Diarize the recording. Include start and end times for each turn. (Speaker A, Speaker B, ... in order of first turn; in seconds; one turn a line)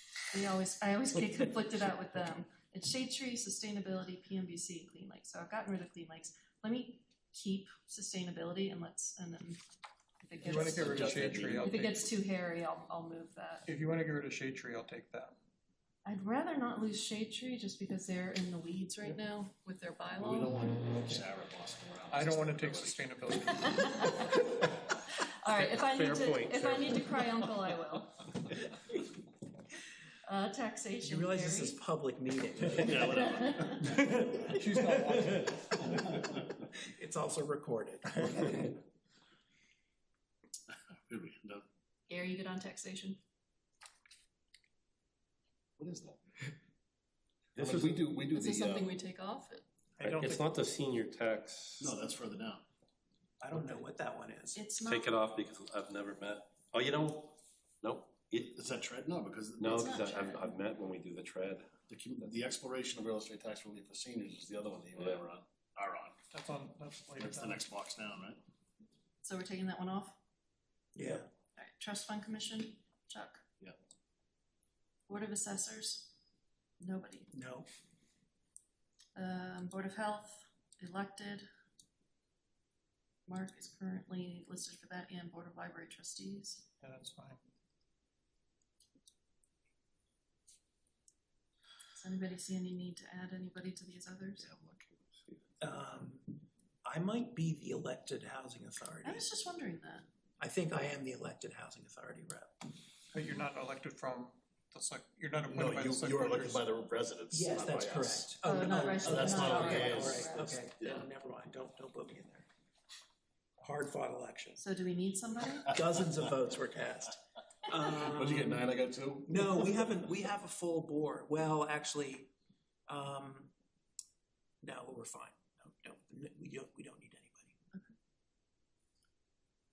Speaker A: 0.3-9.6
Speaker A: 10.2-11.1
Speaker B: 10.4-12.1
Speaker C: 10.7-11.7
Speaker A: 11.6-13.7
Speaker B: 13.7-15.4
Speaker A: 16.1-20.6
Speaker C: 20.1-23.1
Speaker B: 22.1-24.0
Speaker A: 23.5-24.5
Speaker A: 25.1-28.3
Speaker D: 25.5-27.6
Speaker A: 30.3-31.8
Speaker E: 31.0-33.5
Speaker C: 32.8-34.4
Speaker A: 33.0-34.0
Speaker B: 34.5-35.7
Speaker E: 34.7-35.0
Speaker E: 36.6-38.8
Speaker C: 41.1-41.6
Speaker A: 42.1-43.2
Speaker C: 45.8-46.2
Speaker D: 47.6-48.9
Speaker C: 47.6-48.1
Speaker A: 48.3-49.6
Speaker B: 50.0-50.5
Speaker D: 50.0-51.9
Speaker C: 51.8-52.6
Speaker E: 53.4-54.6
Speaker A: 54.5-55.2
Speaker D: 54.8-58.5
Speaker C: 58.5-60.4
Speaker D: 59.6-62.4
Speaker A: 59.7-60.5
Speaker C: 61.9-66.2
Speaker D: 65.0-65.2
Speaker B: 66.3-67.6
Speaker C: 67.2-68.4
Speaker A: 69.2-70.2
Speaker E: 71.0-71.3
Speaker A: 71.6-73.4
Speaker A: 75.1-76.1
Speaker A: 76.8-77.3
Speaker E: 77.3-77.7
Speaker A: 79.2-81.5
Speaker A: 83.3-86.7
Speaker B: 86.8-87.4
Speaker A: 91.9-94.5
Speaker D: 94.4-95.5
Speaker E: 95.6-96.3
Speaker E: 96.8-99.3
Speaker A: 99.0-100.1
Speaker E: 100.4-102.5
Speaker B: 103.1-106.7
Speaker C: 105.5-108.3
Speaker E: 107.3-112.5
Speaker A: 108.4-110.6
Speaker C: 109.0-111.0
Speaker E: 113.6-114.6
Speaker A: 114.6-115.7
Speaker E: 115.7-118.7
Speaker C: 117.9-119.9
Speaker E: 119.3-122.3
Speaker E: 122.9-123.5
Speaker E: 124.6-127.6